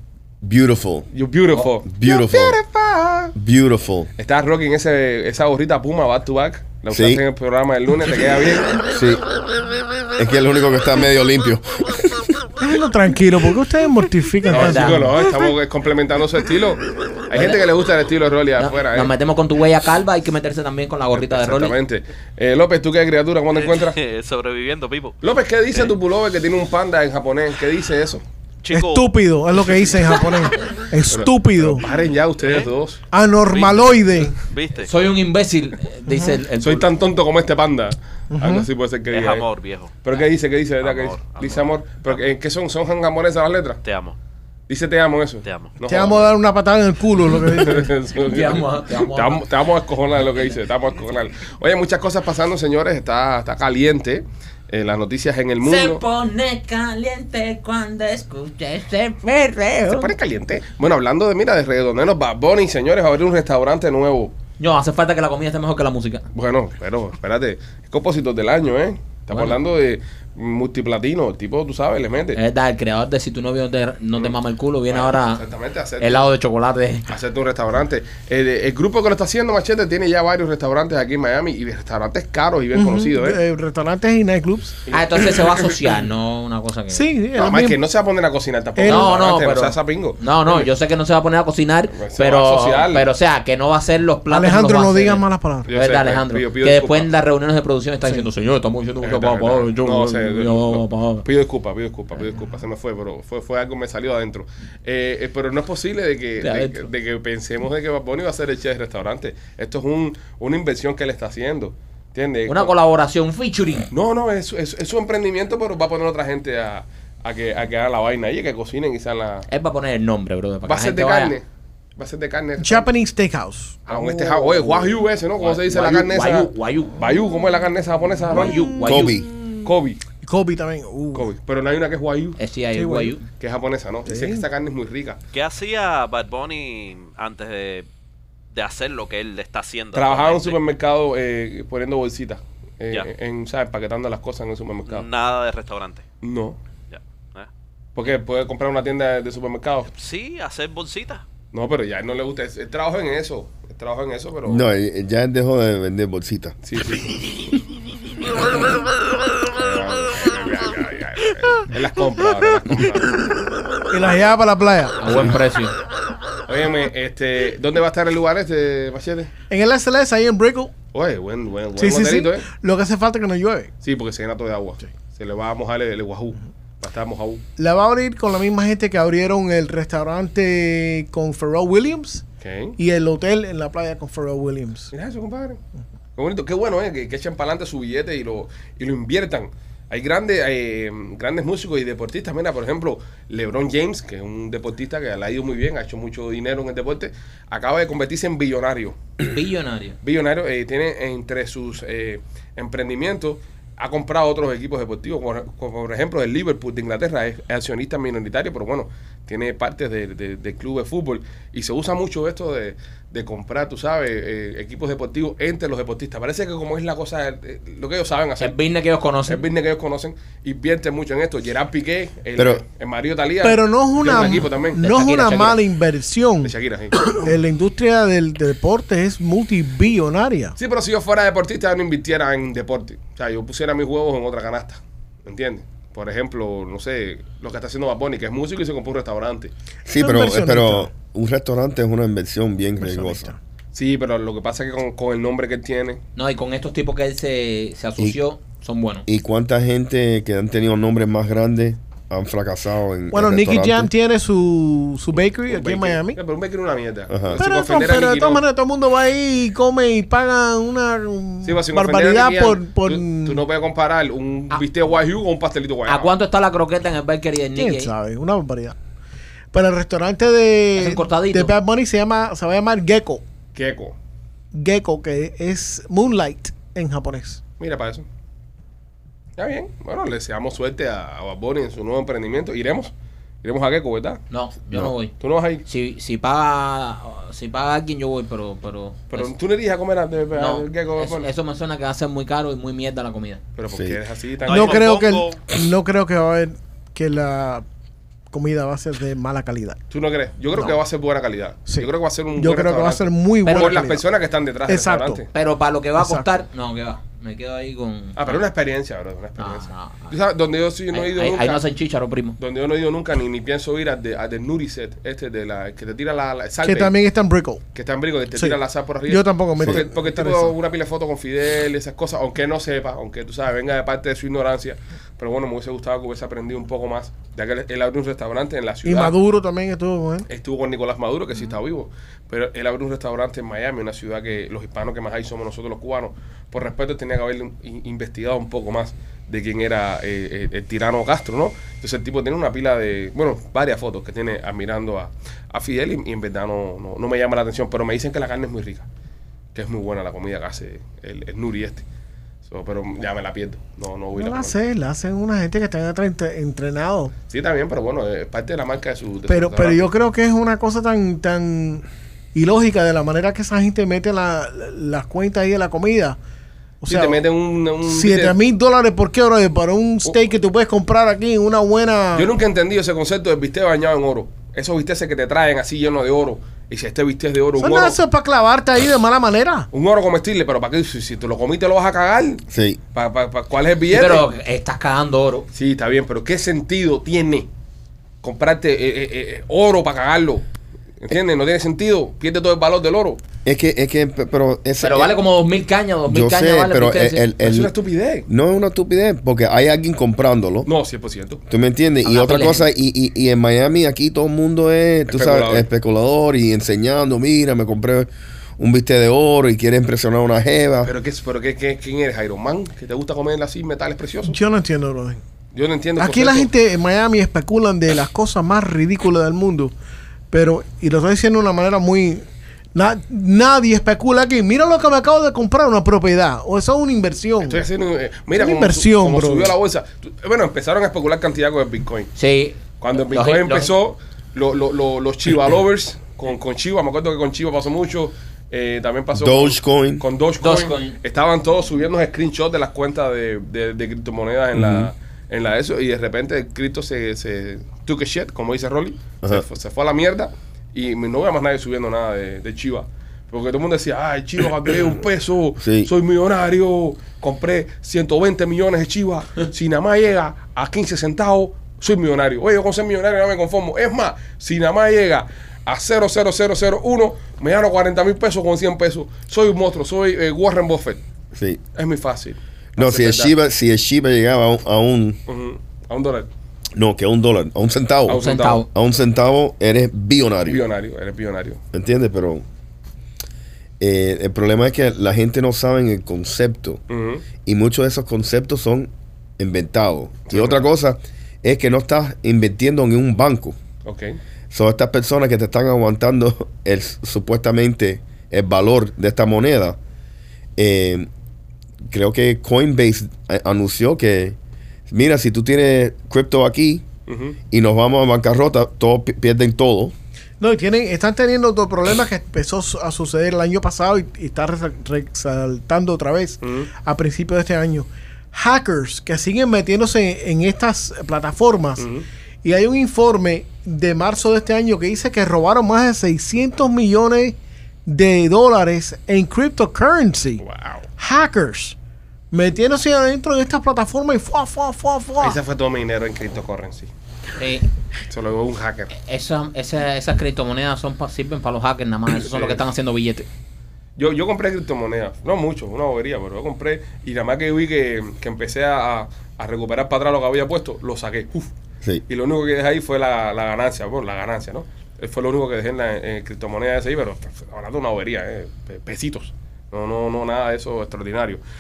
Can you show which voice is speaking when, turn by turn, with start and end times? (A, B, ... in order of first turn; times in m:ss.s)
0:00.4-0:01.1 A
0:01.1-0:01.9 B
0:01.8-0:02.6 A
0:02.0-0:03.3 C
0:03.3-0:04.1 A
0:04.2-0:08.8 B
0:06.9-0:07.2 A
0:08.9-0:09.2 A
0:10.2-0:12.3 A
0:12.6-0:15.5 C
0:14.5-0:15.2 D
0:14.5-0:19.1 B
0:17.3-0:17.6 D
0:18.6-0:21.7 D
0:21.2-0:24.0 B
0:23.5-0:25.2 E
0:25.2-0:28.2 B
0:28.6-0:29.1 E
0:28.7-0:31.8 C
0:29.6-0:30.1 E
0:31.1-0:33.0 B
0:32.4-0:32.7 E
0:33.1-0:34.4 C
0:33.5-0:33.9 E
0:34.4-0:34.9 E
0:34.8-0:36.8 D
0:36.1-0:36.4 C
0:36.6-0:39.5 B
0:38.3-0:38.7 C
0:39.1-0:40.0 E
0:40.0-0:43.8 B
0:40.8-0:42.3 E
0:43.8-0:44.2 E
0:44.7-0:46.3 B
0:45.4-0:45.8 E
0:45.8-0:47.9 C
0:47.3-0:56.0 B
0:48.2-0:49.4 D
0:55.6-1:00.1 D
0:59.9-1:04.3 B
1:04.6-1:06.2 D
1:06.3-1:12.4 B
1:09.3-1:09.6 D
1:12.3-1:15.4 D
1:14.9-1:16.3 B
1:16.0-1:17.1 D
1:17.1-1:23.4 B
1:22.7-1:24.8 C
1:24.8-1:25.7 B
1:24.9-1:27.1 D
1:26.9-1:27.8 C
1:27.4-1:30.7 B
1:28.8-1:29.2 C
1:28.9-1:41.2 D
1:31.9-1:33.1 B
1:34.3-1:35.7 C
1:35.6-1:37.1 B
1:39.0-1:52.7 B
1:46.4-1:46.9 D
1:52.5-1:53.9 D
1:53.9-1:59.5 B
1:59.5-2:01.3 D
2:00.6-2:01.4 B
2:02.0-2:02.9 B
2:02.6-2:05.0 C
2:03.9-2:08.7 B
2:05.4-2:07.0 D
2:08.3-2:09.2 D
2:08.3-2:09.7 C
2:08.8-2:09.3 A
2:09.6-2:10.0 B
2:10.2-2:11.2 C
2:11.1-2:12.4 B
2:12.4-2:13.2 D
2:12.7-2:13.2 C
2:13.4-2:15.2 B
2:14.1-2:14.4 C
2:15.3-2:17.9 E
2:18.5-2:20.6 E
2:19.9-2:25.1 B
2:24.9-2:26.0 E
2:26.2-2:26.6 B
2:26.9-2:27.5 E
2:27.9-2:29.9 B
2:29.9-2:31.2 E
2:31.5-2:34.6 B
2:34.4-2:36.6 A
2:36.6-2:37.1 B
2:39.6-2:43.3 B
2:43.9-2:45.4 C
2:45.0-2:45.7 D
2:46.5-2:49.3 B
2:49.5-2:50.7 C
2:50.9-2:52.5 B
2:51.8-2:53.7 C
2:53.8-2:57.4 B
2:57.6-3:02.2 C
3:02.4-3:02.8 B
3:02.8-3:04.9 C
3:04.9-3:05.6 B
3:06.2-3:19.0 B
3:19.2-3:20.0 D
3:20.0-3:38.5 B
3:38.4-3:39.5 D
3:39.3-3:44.8 B
3:42.4-3:42.6 A
3:43.4-3:46.5 C
3:44.1-3:45.6 D
3:46.4-3:47.1 B
3:47.1-3:50.6 C
3:50.6-3:59.5 B
3:59.8-4:03.3 A
4:00.0-4:00.9 C
4:02.8-4:03.4 C
4:03.7-4:06.0 B
4:06.2-4:09.0 D
4:09.0-4:13.9 A
4:13.1-4:16.2 C
4:15.4-4:18.4 B
4:17.1-4:17.4 A
4:17.4-4:23.4 C
4:21.4-4:26.1 B
4:25.8-4:27.9 D
4:27.6-4:28.8 C
4:29.5-4:33.2 C
4:30.8-4:31.5 D
4:33.5-4:33.9 B
4:34.5-4:37.4 C
4:37.6-4:38.0 B
4:39.4-4:42.9 B
4:43.4-4:44.2 B
4:44.3-4:45.1 D
4:45.2-4:45.6 B
4:45.6-4:49.3 D
4:49.1-4:51.3 B
4:50.3-4:53.4 D
4:53.6-4:54.9 B
4:53.7-4:54.0 A
4:54.4-4:55.4 E
4:54.5-4:57.6 C
4:58.3-4:59.8 C
4:59.9-5:05.3 B
5:01.7-5:04.0 C
5:03.4-5:03.8 D
5:04.7-5:05.2 C
5:05.3-5:08.4 D
5:06.0-5:06.2 C
5:08.2-5:11.6 B
5:09.4-5:10.1 D
5:10.9-5:12.4 D
5:12.4-5:16.9 B
5:16.6-5:17.6 C
5:17.7-5:29.2 B
5:19.1-5:20.5 C
5:28.8-5:30.3 C
5:30.3-5:48.8 B
5:49.5-5:51.8 B
5:52.5-5:54.5 B
5:54.1-5:57.1 C
5:57.3-5:59.9 B
5:59.3-6:06.2 C
6:06.8-6:07.2 C
6:06.9-6:08.4 B
6:07.8-6:12.3 C
6:12.1-6:18.0 B
6:17.6-6:19.7 C
6:19.7-6:24.2 B
6:22.5-6:22.8 A
6:23.9-6:25.4 D
6:25.5-6:27.5 B
6:28.2-6:30.4 B
6:31.0-6:33.2 B
6:33.4-6:35.1 A
6:34.8-6:37.2 D
6:36.1-6:37.7 A
6:37.4-6:38.3 B
6:38.3-6:40.7 A
6:40.6-6:41.4 B
6:41.5-6:50.9 A
6:42.0-6:42.7 D
6:45.1-6:45.6 B
6:50.8-6:54.4 B
6:54.3-6:55.2 C
6:55.5-6:56.5 B
6:56.0-6:59.7 C
7:00.3-7:07.6 C
7:07.4-7:12.1 B
7:08.4-7:09.5 C
7:12.2-7:13.7 D
7:12.8-7:51.0 B
7:19.1-7:20.0 A
7:20.4-7:21.0 D
7:24.5-7:24.9 A
7:35.6-7:35.9 A
7:51.3-7:51.6 A
7:51.7-7:53.3 B
7:52.8-7:55.2 A
7:55.3-7:56.3 B
7:56.7-8:00.6 A
7:58.1-7:58.6 B
7:58.2-7:58.6 D
8:00.4-8:01.6 B
8:01.7-8:02.4 A
8:03.8-8:06.8 A
8:06.9-8:07.2 B
8:07.4-8:13.6 A
8:10.3-8:10.6 B
8:13.8-8:14.2 B
8:14.5-8:19.8 A
8:20.6-8:21.1 A
8:21.8-8:24.4 A
8:24.9-8:26.8 A
8:27.1-8:27.4 B
8:27.5-8:29.9 A
8:30.4-8:41.9 C
8:36.4-8:36.7 B
8:41.8-8:42.0 B
8:42.4-8:47.4 C
8:47.9-8:50.4 C
8:50.4-8:50.8 B
8:51.0-8:51.8 C
8:52.3-8:55.4 C
8:55.2-8:56.9 B
8:57.4-8:57.7 D
8:58.1-8:58.9 B
8:58.9-9:03.3 D
9:02.3-9:02.6 B
9:04.0-9:11.5 B
9:12.1-9:21.4 B